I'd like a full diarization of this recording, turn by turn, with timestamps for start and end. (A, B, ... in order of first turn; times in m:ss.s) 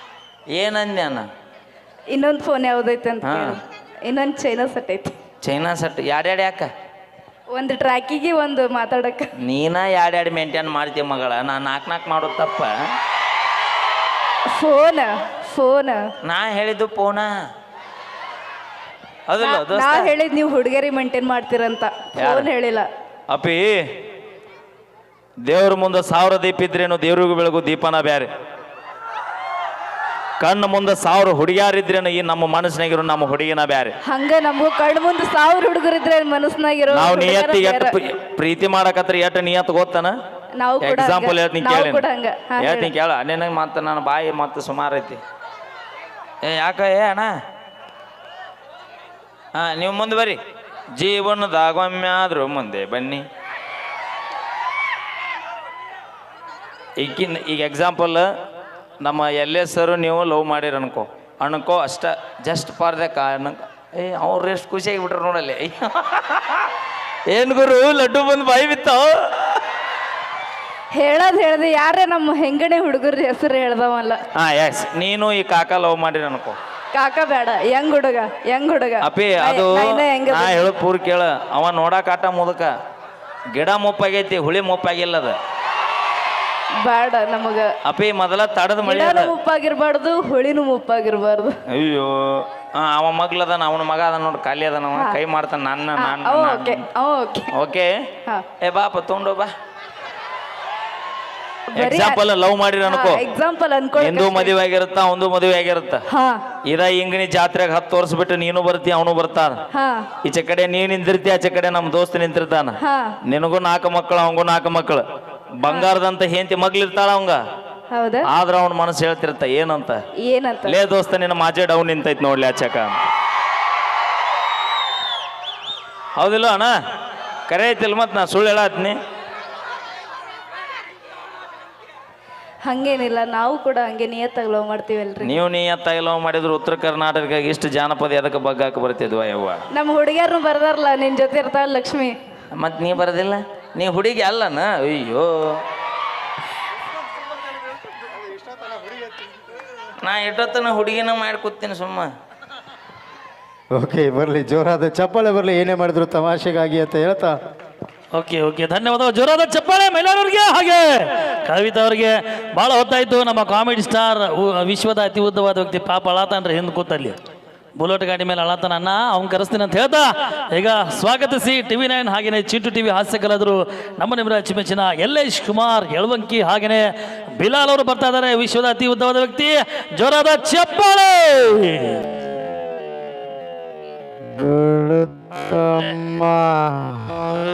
0:00.5-0:01.3 A
0:02.1-0:05.2 B
0:03.2-0:03.6 A
0:05.4-0:06.7 A
0:07.5-0:09.3 B
0:09.4-0:12.7 A
0:14.6-0:16.0 B
0:16.2-0:17.3 A
0:19.3-0:20.1 A
0:19.4-0:22.9 B
0:22.2-0:22.5 A
0:23.3-0:23.8 A
0:25.4-0:28.3 A
0:30.4-0:34.0 A
0:34.1-0:37.9 B
0:36.9-0:40.2 A
0:40.6-0:42.9 B
0:40.8-0:42.0 A
0:42.6-0:45.2 A
0:46.4-0:47.3 A
0:49.6-0:50.4 A
0:51.0-0:53.2 A
0:57.0-0:58.3 A
0:59.0-1:06.7 A
1:07.3-1:09.6 A
1:11.0-1:14.2 B
1:14.4-1:16.6 A
1:16.9-1:20.6 B
1:19.0-1:22.7 A
1:23.5-1:25.4 A
1:26.8-1:27.7 B
1:27.8-1:29.3 A
1:28.8-1:31.5 B
1:31.7-1:36.8 A
1:36.0-1:37.5 B
1:37.5-1:37.9 A
1:38.6-1:39.5 A
1:41.8-1:42.2 B
1:41.8-1:43.2 A
1:42.8-1:44.5 B
1:44.0-1:46.0 A
1:46.1-1:46.4 B
1:46.7-1:49.6 A
1:49.7-1:50.1 B
1:50.2-1:55.0 A
1:52.8-1:53.2 B
1:55.6-1:57.4 A
1:57.9-1:58.3 B
1:58.3-2:00.0 A
2:00.2-2:00.8 B
2:00.7-2:03.0 A
2:06.2-2:06.7 A
2:07.5-2:09.0 A
2:12.7-2:15.4 B
2:15.2-2:19.6 A
2:19.7-2:22.2 B
2:22.5-2:25.5 A
2:28.3-2:29.0 C
2:30.0-2:32.1 A
2:33.7-2:37.4 C
2:38.1-2:47.2 D
2:47.8-3:02.0 D
3:04.9-3:06.4 C